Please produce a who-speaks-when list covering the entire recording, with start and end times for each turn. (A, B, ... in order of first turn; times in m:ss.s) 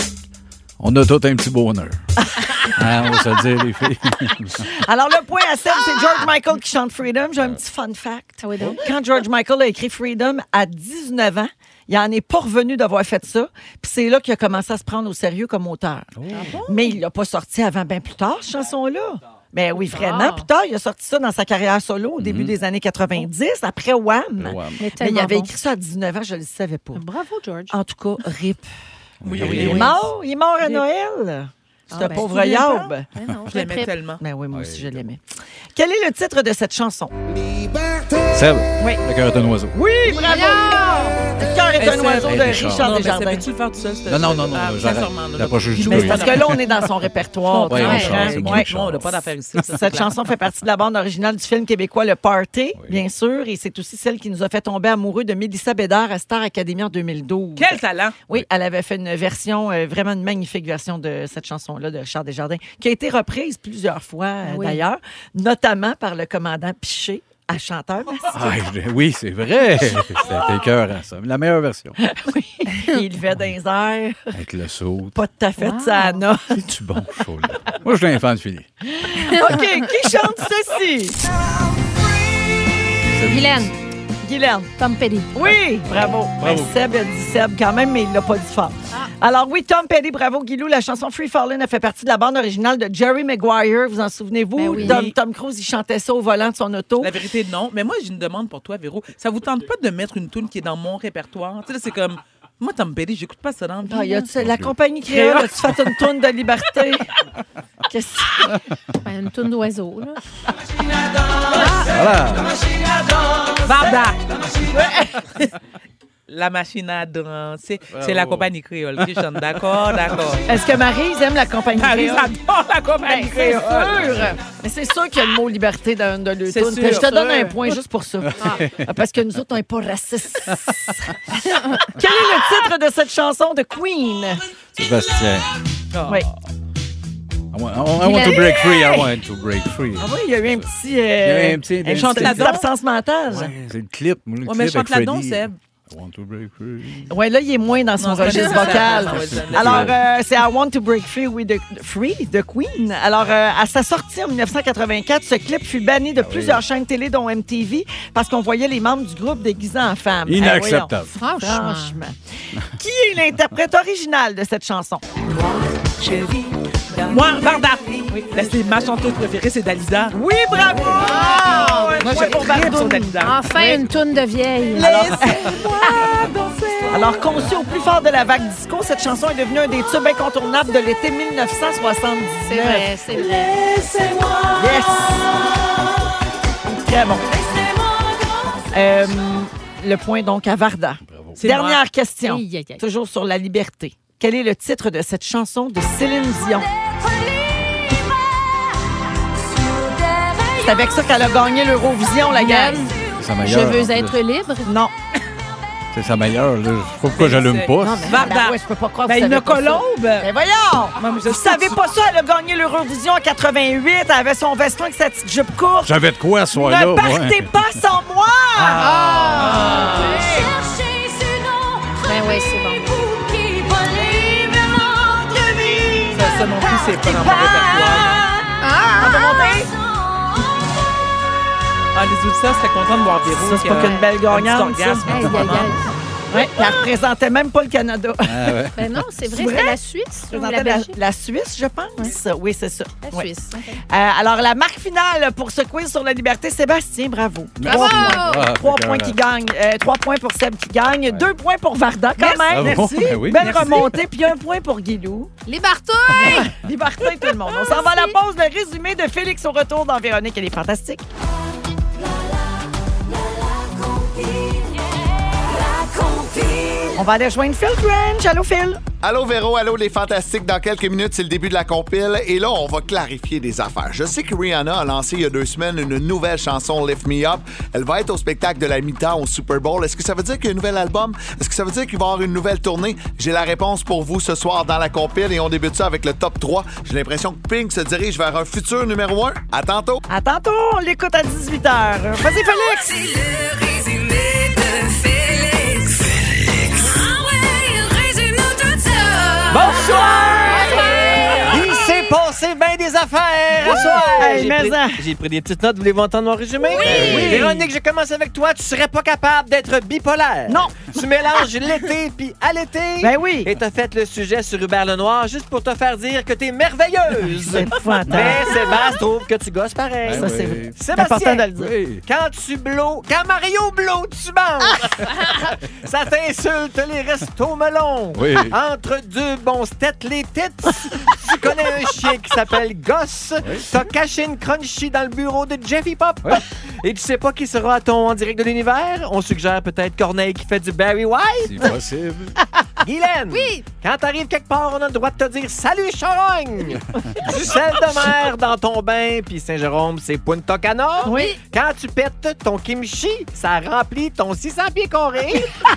0:00.8-0:02.0 A
0:02.2-0:02.7 B
0:02.6-0:04.7 A
0:04.6-0:16.1 B
0:08.4-0:08.9 C
0:16.2-0:16.6 A
0:16.3-0:16.9 D
0:16.6-0:27.0 B
0:19.9-0:20.5 C
0:22.2-0:22.5 A
0:24.4-0:24.8 A
0:24.8-0:25.5 C
0:27.0-0:27.8 C
0:27.7-0:28.7 B
0:29.2-0:30.0 A
0:29.2-0:30.8 D
0:29.3-0:33.1 B
0:31.9-0:32.3 C
0:32.0-0:32.9 D
0:33.1-0:33.9 C
0:33.5-0:34.2 D
0:34.2-0:35.2 B
0:34.5-0:35.0 A
0:35.8-0:37.1 B
0:38.3-0:39.8 A
0:38.8-0:39.0 B
0:39.7-0:43.5 B
0:40.1-0:41.2 C
0:41.8-0:46.7 D
0:42.2-0:42.9 A
0:44.1-0:46.6 A
0:45.8-0:48.8 B
0:47.4-0:50.3 D
0:47.7-0:49.6 A
0:47.8-0:48.1 C
0:49.7-1:08.6 B
0:57.6-0:58.2 D
1:04.4-1:04.8 C
1:08.3-1:12.0 A
1:12.0-1:14.4 B
1:12.7-1:13.0 C
1:14.3-1:15.2 A
1:15.1-1:16.6 B
1:15.6-1:16.2 C
1:16.5-1:18.7 A
1:18.8-1:21.3 B
1:19.3-1:19.9 C
1:23.0-1:23.7 A
1:23.3-1:23.8 C
1:24.2-1:24.7 B
1:24.8-1:25.3 C
1:25.3-1:37.2 B
1:25.4-1:26.7 A
1:34.6-1:35.1 C
1:34.8-1:35.1 D
1:37.0-1:44.3 D
1:43.8-1:47.1 B
1:44.4-1:44.7 A
1:45.1-1:45.8 D
1:47.9-1:48.6 B
1:49.0-1:50.2 C
1:51.5-1:51.9 C
1:51.8-1:52.6 A
1:53.6-1:54.3 D
1:54.6-1:55.3 B
1:56.3-2:00.4 D
1:57.9-1:59.0 A
2:00.5-2:02.3 B
2:01.8-2:04.0 D
2:03.0-2:14.4 B
2:04.0-2:04.3 A
2:06.5-2:07.6 D
2:08.4-2:08.8 A
2:14.8-2:15.5 A
2:15.9-2:16.3 D
2:17.5-2:20.7 A
2:18.0-2:19.0 C
2:20.0-2:23.5 B
2:21.2-2:22.6 A
2:21.8-2:22.6 D
2:23.3-2:27.1 A
2:24.4-2:25.6 D
2:27.1-2:42.2 B
2:28.0-2:30.0 D
2:28.8-2:30.0 A
2:36.2-2:36.6 A
2:40.3-2:41.1 A
2:41.2-2:42.0 C
2:42.7-2:45.0 B
2:45.3-2:50.2 D
2:50.1-2:53.2 B
2:50.8-2:53.8 D
2:51.0-2:52.3 C
2:53.2-2:55.2 C
2:54.7-2:57.3 D
2:54.8-2:56.2 B
2:56.9-3:05.7 B
3:02.4-3:03.5 C
3:03.4-3:04.6 D
3:06.6-3:07.4 B
3:07.3-3:08.6 E
3:08.7-3:16.7 B
3:11.0-3:11.4 A
3:11.4-3:11.8 D
3:12.2-3:12.8 C
3:19.5-3:20.8 E
3:20.6-3:23.0 B
3:22.3-3:24.7 C
3:23.2-3:24.1 A
3:24.6-3:24.9 B
3:25.9-3:28.3 A
3:27.1-3:30.3 D
3:27.8-3:40.5 B
3:31.0-3:31.8 D
3:35.8-3:37.6 A
3:38.6-3:39.8 A
3:38.8-3:40.3 C
3:39.4-3:40.4 D
3:40.2-3:45.4 E
3:42.0-3:42.9 C
3:45.3-3:49.7 B
3:46.1-3:48.3 D
3:48.6-3:49.2 C
3:49.7-3:50.4 E
3:51.9-3:55.8 D
3:53.3-3:55.7 B
3:55.1-3:55.9 C
3:56.3-3:58.7 B
3:58.2-3:59.0 A
3:58.8-4:01.0 C
3:59.3-3:59.8 B
4:00.3-4:03.3 B
4:03.0-4:03.8 C
4:03.9-4:15.3 B
4:07.6-4:09.2 A
4:07.6-4:08.5 C
4:12.2-4:13.9 D
4:12.5-4:13.8 A
4:15.5-4:16.5 C
4:16.1-4:21.1 B
4:17.5-4:18.2 C
4:23.7-4:24.7 E
4:25.5-4:27.0 E
4:26.9-4:28.8 B
4:29.0-4:50.0 F
4:50.1-4:52.9 B
4:52.4-5:00.2 E
4:59.5-5:01.6 B
4:59.5-5:00.7 G
5:00.5-5:01.4 C
5:00.7-5:01.9 E
5:01.4-5:21.5 G
5:03.6-5:05.1 B
5:06.7-5:07.3 E
5:06.9-5:07.7 B
5:07.1-5:07.5 D
5:10.5-5:10.9 B
5:13.0-5:13.5 B
5:17.4-5:18.5 B
5:18.1-5:18.5 A
5:20.0-5:21.0 A
5:20.1-5:21.7 B
5:21.5-5:22.0 A
5:22.0-5:41.7 G
5:28.1-5:28.6 A
5:33.4-5:33.9 A
5:41.4-5:42.4 A
5:42.8-5:55.6 G
5:43.3-5:43.7 C
5:51.0-5:51.4 B
5:51.0-5:51.4 C